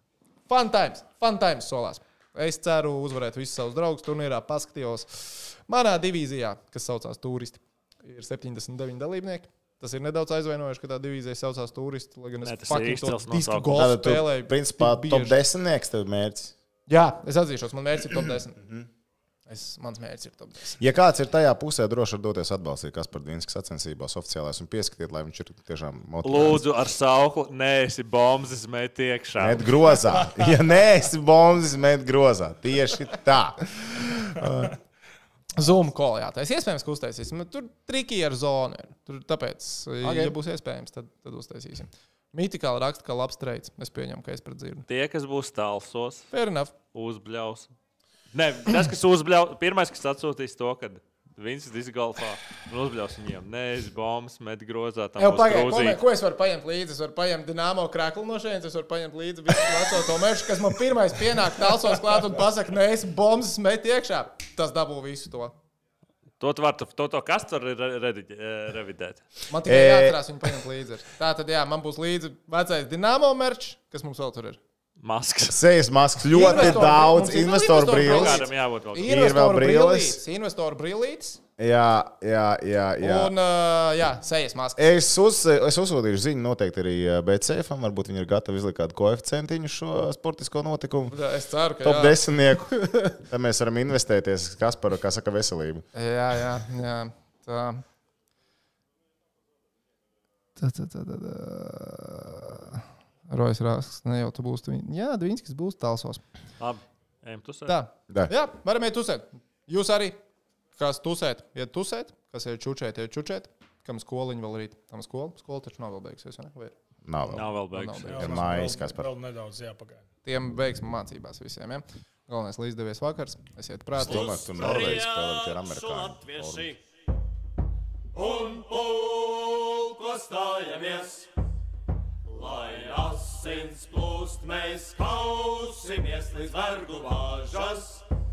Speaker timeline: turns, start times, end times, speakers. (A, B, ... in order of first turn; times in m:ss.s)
0:00.5-0:15.4 A
0:12.4-0:13.9 B
0:13.7-0:16.5 C
0:16.9-0:18.6 A
0:19.5-0:20.8 A
0:20.8-0:26.6 C
0:26.2-0:30.2 B
0:29.4-0:33.7 C
0:34.0-0:34.7 A
0:35.6-0:44.8 A
0:40.0-0:40.4 C
0:44.9-0:46.3 B
0:46.3-0:46.7 A
0:46.9-0:47.7 B
0:48.3-0:56.0 B
0:55.2-1:05.5 A
1:06.4-1:09.2 B
1:09.5-1:14.6 A
1:09.6-1:10.2 C
1:15.0-1:15.6 B
1:15.5-1:18.4 C
1:16.3-1:19.2 B
1:16.3-1:21.4 A
1:19.0-1:20.2 C
1:21.6-1:23.3 C
1:23.0-1:24.8 A
1:24.8-1:31.2 C
1:31.1-1:33.2 A
1:31.8-1:35.8 C
1:35.9-1:37.8 A
1:40.6-1:46.2 A
1:46.6-1:47.7 B
1:47.7-1:50.2 A
1:50.8-1:56.8 A
1:57.0-1:57.6 C
1:57.3-1:58.6 B
1:57.7-1:58.2 A
1:58.1-2:00.0 D
1:58.1-1:59.1 C
2:00.2-2:04.4 A
2:04.0-2:06.7 C
2:04.1-2:06.8 E
2:04.6-2:05.0 B
2:08.1-2:11.3 E
2:12.3-2:18.0 E